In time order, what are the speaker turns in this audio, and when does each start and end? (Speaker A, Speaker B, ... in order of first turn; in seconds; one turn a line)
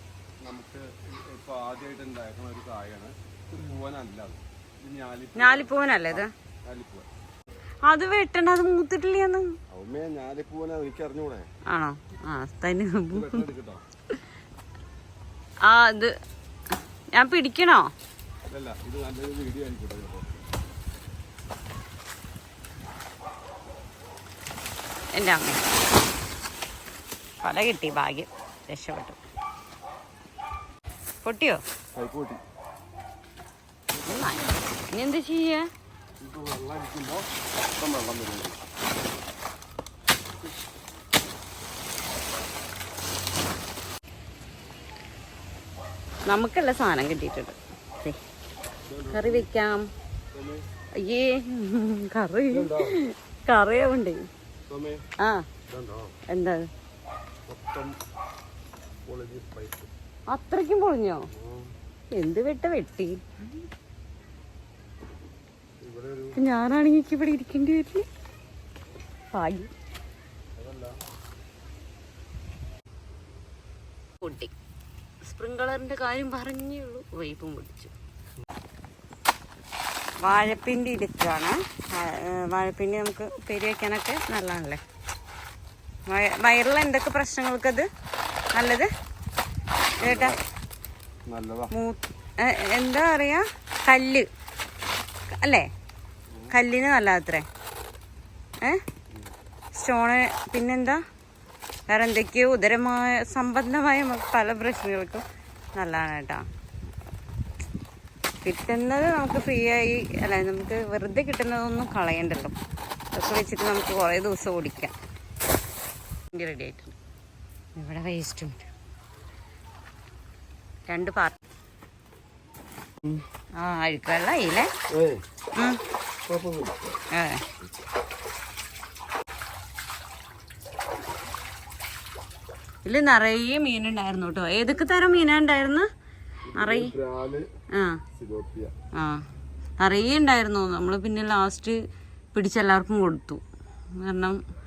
Speaker A: 0.4-7.1
Speaker B: 5.3-6.3
Speaker B: 7.9-9.5
Speaker A: 9.7-11.4
Speaker B: 11.7-13.5
Speaker A: 13.1-13.8
Speaker B: 15.7-16.1
Speaker B: 17.1-17.9
Speaker A: 18.5-20.5
Speaker B: 25.1-25.6
Speaker B: 27.4-29.2
Speaker B: 31.2-31.6
Speaker A: 31.9-32.4
Speaker A: 34.0-34.4
Speaker B: 34.0-35.7
Speaker A: 36.2-38.6
Speaker B: 46.3-48.2
Speaker A: 48.9-49.5
Speaker B: 49.1-49.9
Speaker A: 50.3-50.6
Speaker B: 51.0-54.2
Speaker A: 52.5-53.0
Speaker A: 54.7-55.0
Speaker B: 55.2-55.5
Speaker A: 55.7-56.1
Speaker B: 56.3-56.6
Speaker A: 57.5-57.9
Speaker A: 59.0-59.9
Speaker B: 60.3-61.2
Speaker A: 61.3-61.7
Speaker B: 62.1-63.6
Speaker A: 65.8-66.4
Speaker B: 66.3-68.0
Speaker B: 69.3-69.7
Speaker A: 70.5-71.0
Speaker B: 74.2-74.5
Speaker B: 75.2-77.9
Speaker B: 80.2-84.8
Speaker B: 86.1-87.9
Speaker B: 88.5-88.9
Speaker B: 90.0-90.4
Speaker A: 90.0-90.3
Speaker A: 91.3-91.7
Speaker B: 91.7-94.3
Speaker B: 95.4-95.7
Speaker B: 96.5-97.5
Speaker B: 99.7-101.0
Speaker B: 101.9-105.2
Speaker B: 105.8-106.4
Speaker B: 108.4-112.5
Speaker B: 113.1-114.9
Speaker B: 116.3-116.9
Speaker B: 117.8-118.7
Speaker B: 120.9-121.3
Speaker B: 123.6-124.7
Speaker A: 124.9-125.2
Speaker B: 125.5-125.8
Speaker A: 126.2-127.0
Speaker B: 127.1-127.4
Speaker B: 132.8-135.9
Speaker A: 136.4-137.5
Speaker B: 136.5-136.9
Speaker B: 137.7-138.0
Speaker A: 138.1-138.7
Speaker B: 138.9-139.2
Speaker B: 139.8-141.8
Speaker B: 142.3-143.4
Speaker B: 144.0-144.4